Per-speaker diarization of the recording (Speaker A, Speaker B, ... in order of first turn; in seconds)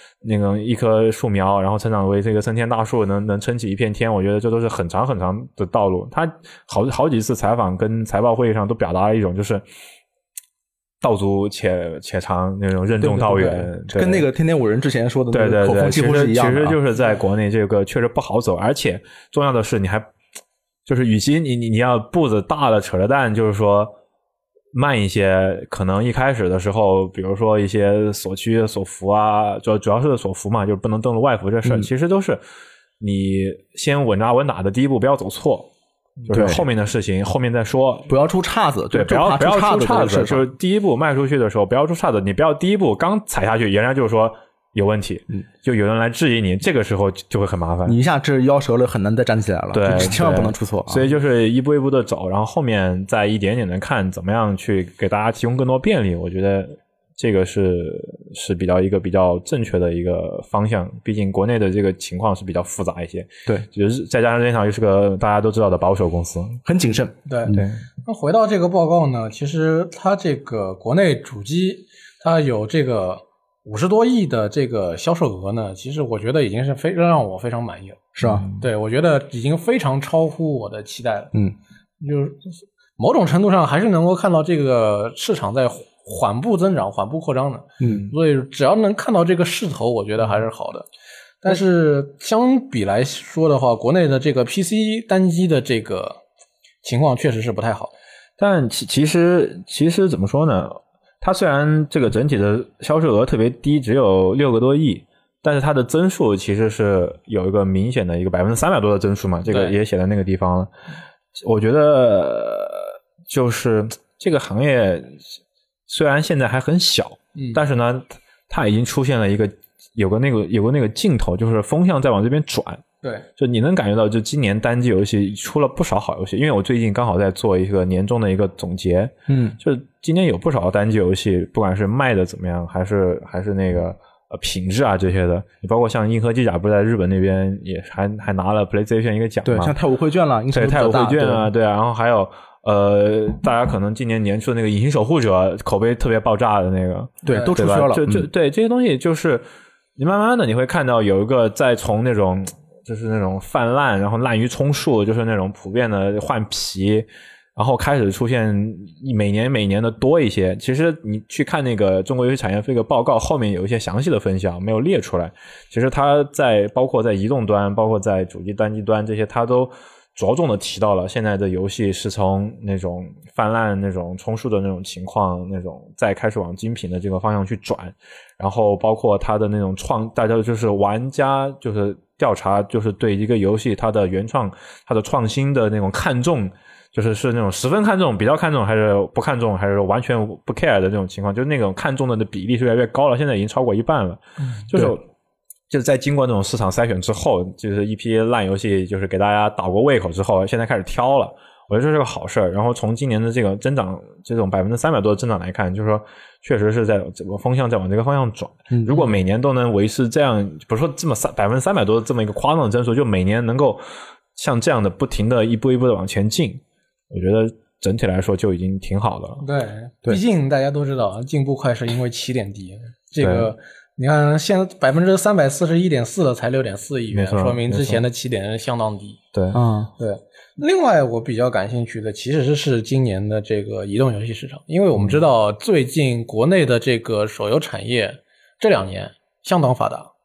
Speaker A: 0.2-9.6, 11.0-14.2, 15.3-20.1, 20.9-24.0, 24.7-32.4, 33.0-35.7, 36.2-38.1, 38.9-48.0, 49.7-66.6, 67.5-67.8, 78.2-78.5, 98.4-110.7, 111.4-115.2, 115.9-122.8, 123.4-139.7, 140.5-149.4, 150.0-195.0, 195.7-213.8, 214.3-219.4, 223.2-223.5, 227.1-228.0, 229.3-229.6
Speaker B: 13.8-16.8, 36.3-36.6, 38.1-40.5, 47.8-51.0, 66.6-67.7, 78.2-78.5, 87.8-88.1, 129.3-129.6, 139.4-141.5, 147.2-148.3, 208.7-209.1, 229.5-229.9
Speaker C: 67.3-81.3, 82.0-90.9, 91.4-96.2, 96.8-97.9, 109.5-109.7, 219.4-229.2, 230.0-240.1